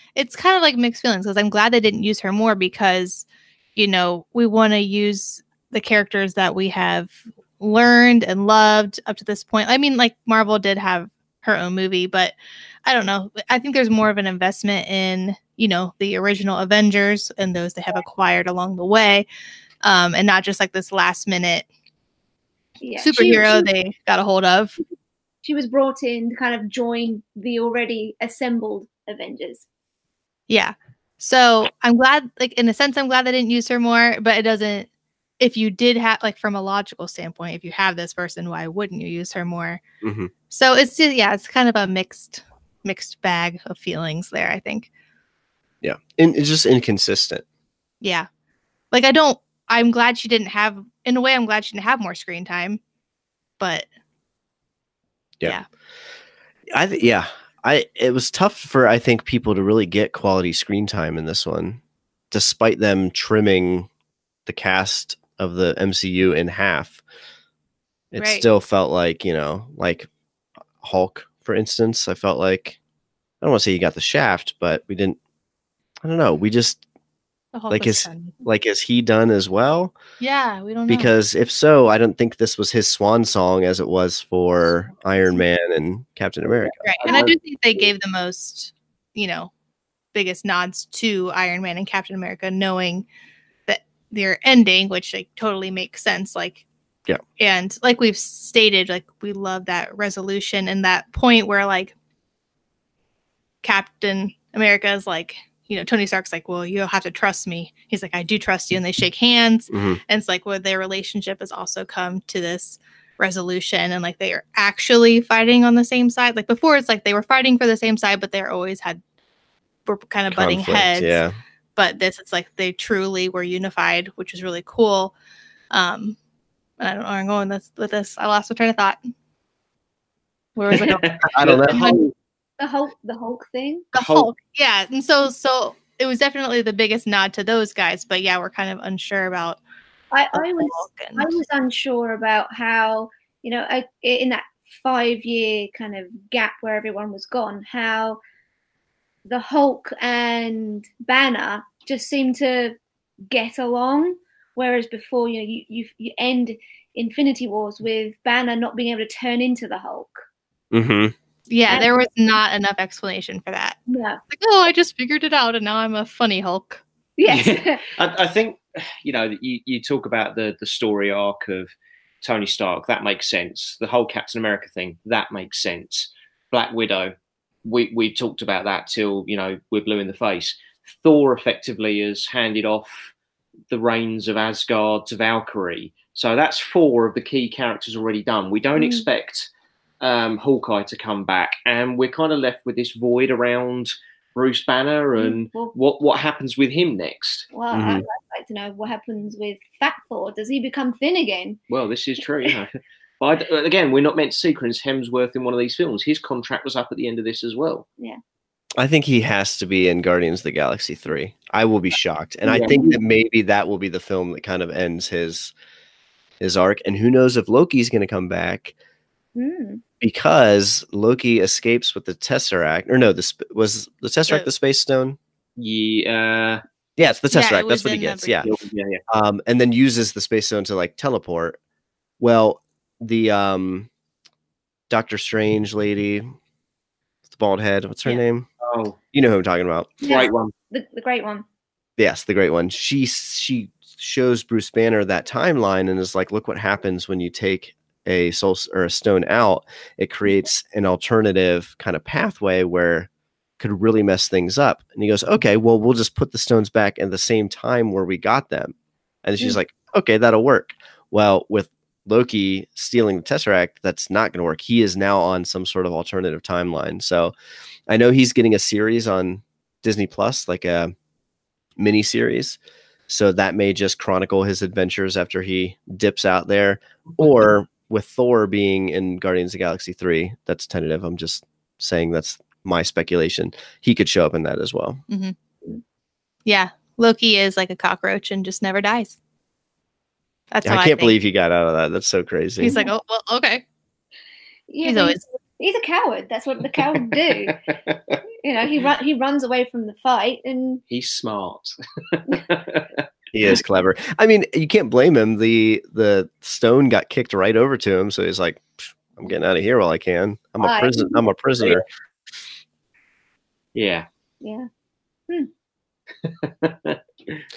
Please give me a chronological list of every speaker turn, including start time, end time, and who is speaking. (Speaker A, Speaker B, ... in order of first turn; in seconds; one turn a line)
Speaker A: 0.1-19.2
Speaker A: 19.8-21.6
Speaker B: 22.8-23.7
Speaker A: 23.0-24.8
Speaker B: 25.4-29.6
Speaker A: 30.5-34.9
Speaker A: 35.4-39.8
Speaker C: 40.0-40.3
Speaker A: 40.5-44.9
Speaker C: 45.8-47.4
Speaker A: 48.0-48.3
Speaker A: 48.9-52.8
Speaker A: 53.6-53.9
Speaker C: 56.7-61.8
Speaker C: 62.3-63.9
Speaker C: 64.5-67.0
Speaker C: 68.1-70.1
Speaker A: 68.2-68.4
Speaker C: 70.8-72.8
Speaker C: 73.4-75.2
Speaker C: 76.0-76.8
Speaker A: 77.5-78.3
Speaker C: 77.7-80.0
Speaker A: 80.2-81.1
Speaker C: 80.9-86.9
Speaker D: 86.6-87.9
Speaker A: 86.8-89.5
Speaker A: 90.1-93.0
Speaker A: 93.7-96.6
Speaker A: 97.4-101.9
Speaker A: 103.6-119.0
Speaker C: 109.7-110.0
Speaker A: 119.8-121.2
Speaker C: 120.3-121.4
Speaker A: 121.8-125.1
Speaker A: 125.7-126.2
Speaker A: 126.8-129.1
Speaker A: 130.6-131.2
Speaker D: 130.7-132.1
Speaker C: 131.3-131.8
Speaker A: 131.7-132.0
Speaker B: 132.6-133.9
Speaker A: 133.9-139.6
Speaker D: 133.9-134.3
Speaker B: 140.1-148.2
Speaker A: 140.3-141.3
Speaker B: 149.3-152.8
Speaker B: 153.3-160.2
Speaker C: 160.7-161.1
Speaker A: 161.5-163.8
Speaker B: 163.9-164.2
Speaker A: 164.3-166.8
Speaker B: 167.2-167.9
Speaker D: 167.3-177.1
Speaker D: 177.6-183.1
Speaker D: 183.7-189.5
Speaker B: 188.8-189.1
Speaker D: 190.0-197.5
Speaker B: 195.2-195.7
Speaker B: 197.5-201.6
Speaker C: 197.7-198.0
Speaker D: 201.7-207.8
Speaker C: 208.8-215.5
Speaker B: 212.5-213.0
Speaker D: 212.5-212.8
Speaker C: 216.4-218.7
Speaker B: 219.3-219.8
Speaker C: 220.0-225.2
Speaker D: 225.6-226.6
Speaker C: 227.0-228.5
Speaker A: 227.3-228.4
Speaker D: 228.4-229.0
Speaker C: 229.1-231.6
Speaker C: 232.2-233.9
Speaker C: 234.9-236.3
Speaker C: 237.3-238.5
Speaker D: 238.6-239.0
Speaker C: 239.1-239.9
Speaker B: 240.0-241.4
Speaker D: 240.0-240.5
Speaker C: 242.0-267.3
Speaker C: 267.9-270.9
Speaker C: 271.8-285.0
Speaker A: 285.1-285.3
Speaker A: 286.4-289.1
Speaker A: 290.5-291.2
Speaker C: 290.6-292.7
Speaker A: 292.6-293.6
Speaker B: 294.7-297.6
Speaker A: 294.8-295.2
Speaker D: 297.1-298.2
Speaker B: 298.4-300.8
Speaker D: 300.9-303.0
Speaker C: 303.3-311.8
Speaker B: 310.6-311.2
Speaker D: 313.7-314.1
Speaker B: 314.4-314.7
Speaker D: 316.3-317.4